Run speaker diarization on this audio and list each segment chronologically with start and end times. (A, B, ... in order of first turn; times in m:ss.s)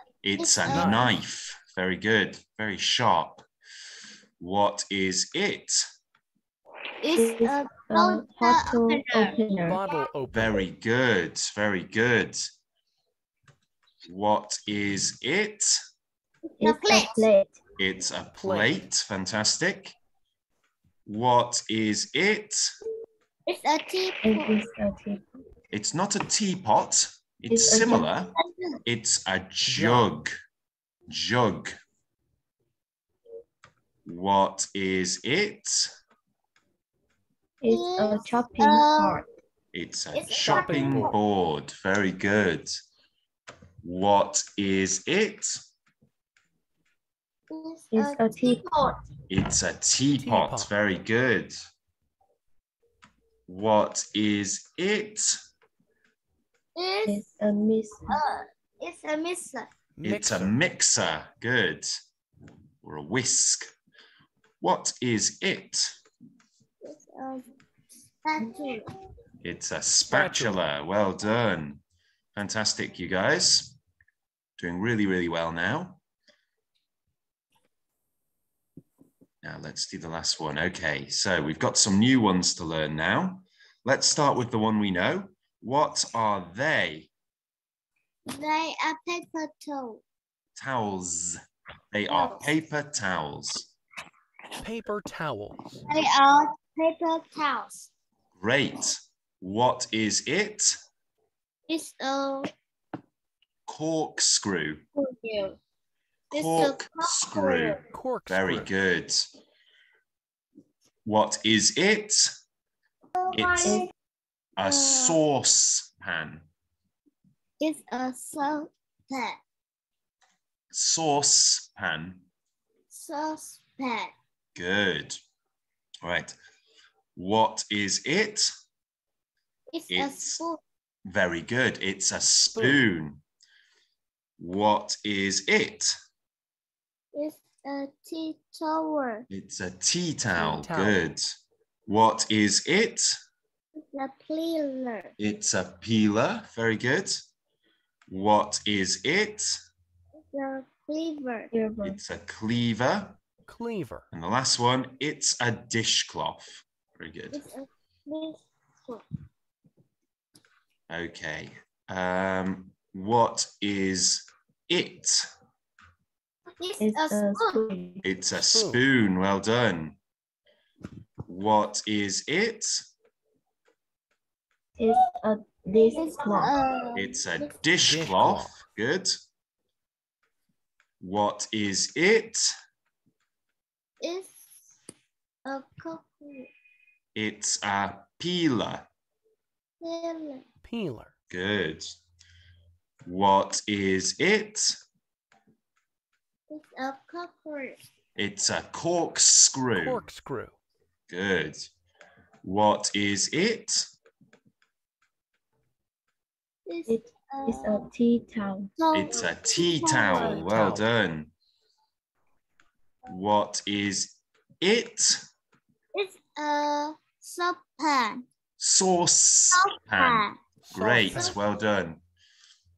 0:00.2-0:03.4 A
0:00.4-0:01.1 B
0:00.7-0:01.1 C
0:04.4-0:05.8 A
0:07.0-0:09.4 B
0:07.1-0:09.8 D
0:09.6-0:10.6 C
0:10.3-0:12.5 A
0:14.1-0:15.8 A
0:16.5-0:17.3 B
0:16.6-0:17.6 D
0:17.8-0:20.0 A
0:18.4-0:18.8 C
0:21.1-0:22.7 A
0:23.5-0:24.6 B
0:24.2-0:25.4 D
0:25.7-0:28.3 A
0:27.5-0:28.1 D
0:28.4-0:28.8 B
0:28.8-0:30.3 A
0:29.7-0:30.1 C
0:31.1-0:31.7 A
0:34.1-0:35.9 A
0:37.6-0:39.3 D
0:37.7-0:39.2 B
0:39.7-0:42.8 A
0:40.1-0:41.2 B
0:40.4-0:41.2 C
0:43.8-0:45.6 A
0:47.5-0:49.0 B
0:47.9-0:49.0 D
0:49.3-0:51.6 A
0:50.2-0:50.7 C
0:53.5-0:55.4 A
0:56.8-0:57.2 B
0:57.1-0:58.2 D
0:58.1-0:59.7 B
1:00.0-1:00.6 C
1:00.0-1:01.9 A
1:02.8-1:03.7 A
1:04.6-1:06.0 A
1:06.8-1:07.5 B
1:08.2-1:08.9 B
1:09.4-1:11.8 A
1:10.1-1:10.6 C
1:12.4-1:13.8 A
1:14.6-1:16.0 A
1:19.4-1:27.1 A
1:28.3-1:30.0 B
1:30.6-1:31.4 A
1:31.9-1:33.7 A
1:32.1-1:32.4 B
1:34.6-1:35.7 C
1:35.8-1:37.9 B
1:38.4-1:40.8 A
1:41.7-1:42.5 B
1:43.7-1:44.8 A
1:45.0-1:45.6 B
1:46.3-1:49.3 A
1:46.3-1:47.8 B
1:47.9-1:48.7 C
1:51.0-1:52.3 A
1:53.2-1:53.9 B
1:53.3-1:53.8 A
1:53.6-1:53.9 D
1:54.6-1:56.5 A
1:54.6-1:55.2 B
1:57.6-1:59.4 B
2:00.7-2:02.2 A
2:02.9-2:04.1 B
2:04.6-2:05.2 A
2:06.0-2:06.4 A
2:07.2-2:08.5 A
2:09.7-2:10.6 B
2:09.9-2:10.4 A
2:11.0-2:13.2 A
2:12.6-2:12.8 C
2:14.4-2:16.0 A
2:17.1-2:19.3 B
2:19.3-2:21.3 A
2:20.4-2:21.0 C
2:21.9-2:23.2 A
2:23.8-2:25.2 B
2:25.2-2:27.2 A
2:28.1-2:29.6 A
2:30.2-2:31.5 B
2:31.5-2:32.0 D
2:31.8-2:33.2 A
2:33.5-2:34.1 C
2:34.1-2:37.4 A
2:37.3-2:39.0 B
2:40.9-2:45.3 A
2:46.6-2:47.7 B
2:46.8-2:48.1 D
2:48.0-2:50.0 A
2:48.4-2:48.8 C
2:51.3-2:52.9 A
2:54.8-2:56.6 D
2:55.9-2:57.5 B
2:56.9-2:59.2 A
2:57.8-2:58.6 C
3:01.0-3:02.5 A
3:04.0-3:04.8 B
3:05.4-3:06.5 B
3:07.2-3:08.9 A
3:09.8-3:10.4 B
3:10.6-3:11.1 C
3:11.3-3:12.0 A
3:13.0-3:14.8 A
3:16.5-3:17.8 B
3:18.2-3:20.0 A
3:19.8-3:20.6 C
3:21.1-3:21.7 A
3:22.4-3:23.9 A
3:26.7-3:27.9 B
3:26.9-3:28.7 D
3:28.8-3:30.5 B
3:28.9-3:31.3 A
3:30.0-3:30.9 C
3:33.1-3:35.2 A
3:35.9-3:38.2 B
3:38.6-3:42.0 A
3:39.5-3:40.4 B
3:40.7-3:41.4 C
3:41.0-3:41.4 B